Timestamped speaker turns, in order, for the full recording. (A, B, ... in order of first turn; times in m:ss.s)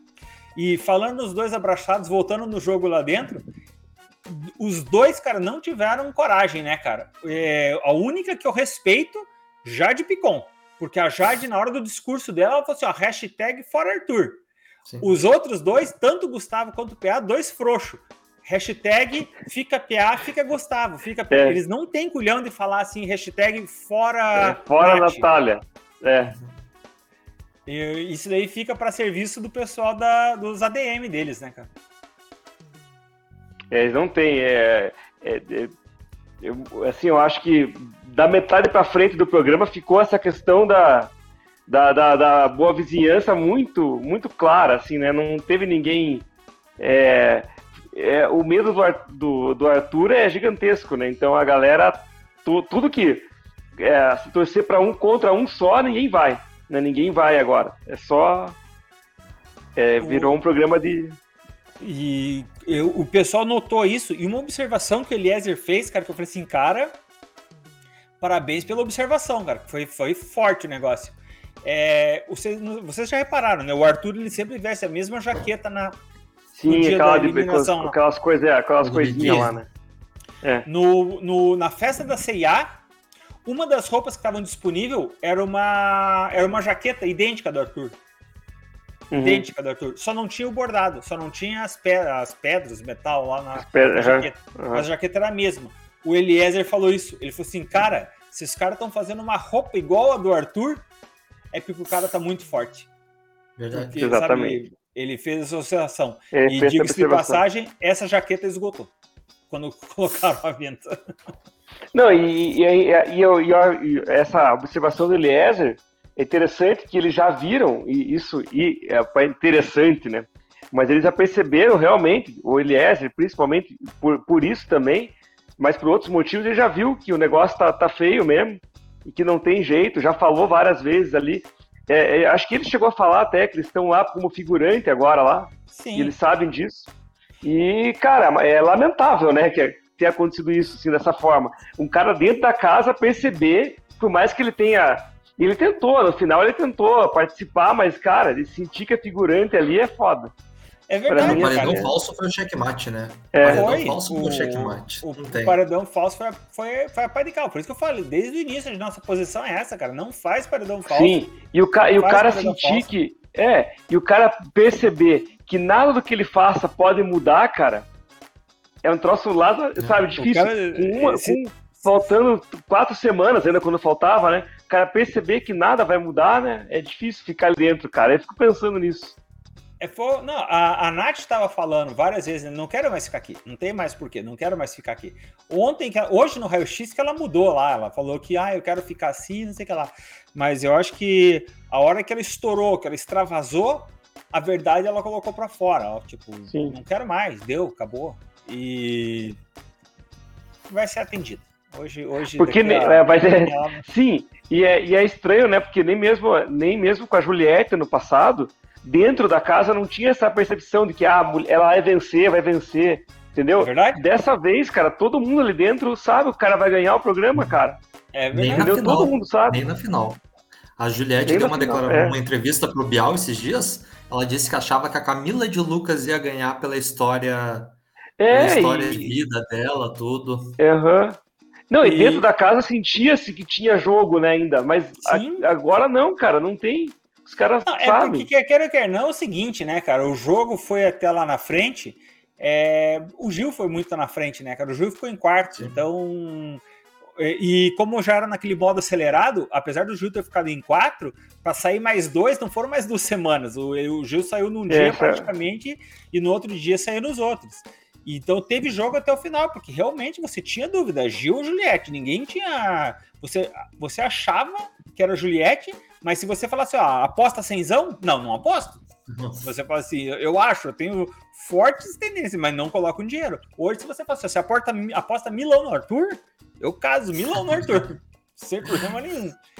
0:00.5-0:03.4 A
0:04.2-0:14.4 A
0:14.8-0:15.1 B
0:15.0-0:25.3 A
0:21.3-0:21.6 C
0:24.3-0:26.3 C
0:27.7-0:31.7 A
0:33.7-0:35.7 C
0:36.4-0:41.1 C
0:41.7-0:46.3 C
0:46.8-0:53.2 C
0:53.8-0:58.6 C
0:59.8-1:01.2 C
1:00.0-1:00.4 A
1:01.8-1:06.9 A
1:08.2-1:16.0 A
1:16.6-1:19.7 C
1:16.7-1:17.9 A
1:18.8-1:19.5 B
1:20.4-1:20.7 C
1:20.6-1:22.8 A
1:23.4-1:28.0 A
1:29.1-1:29.4 C
1:29.1-1:40.8 A
1:33.6-1:34.8 C
1:41.5-1:42.9 A
1:43.6-1:43.9 B
1:43.7-1:48.9 A
1:44.0-1:44.6 C
1:46.3-1:47.4 C
1:49.5-1:50.9 A
1:51.9-2:16.9 C
2:15.7-2:16.1 A
2:17.4-2:30.3 C
2:30.9-2:31.9 A
2:31.1-2:31.9 C
2:31.2-2:35.6 B
2:33.3-2:33.7 C
2:33.4-2:41.3 A
2:40.9-2:47.9 C
2:41.9-2:42.9 A
2:48.8-2:59.2 C
2:50.2-2:52.1 A
2:59.8-3:19.4 A
3:16.5-3:16.8 C
3:20.7-3:23.8 A
3:22.4-3:37.8 C
3:33.6-3:34.0 A
3:38.1-3:39.0 A
3:38.3-3:40.2 B
3:38.5-3:39.6 C
3:40.8-3:47.7 B
3:41.2-3:42.2 C
3:48.2-3:49.1 C
3:48.3-3:50.6 B
3:50.6-3:51.2 C
3:51.7-3:58.3 C
3:51.8-3:52.2 A
3:55.0-3:55.5 A
3:57.7-4:06.6 A
4:05.6-4:05.8 B
4:07.2-4:28.8 A
4:14.7-4:15.3 C
4:29.1-4:29.4 B
4:29.4-4:39.4 A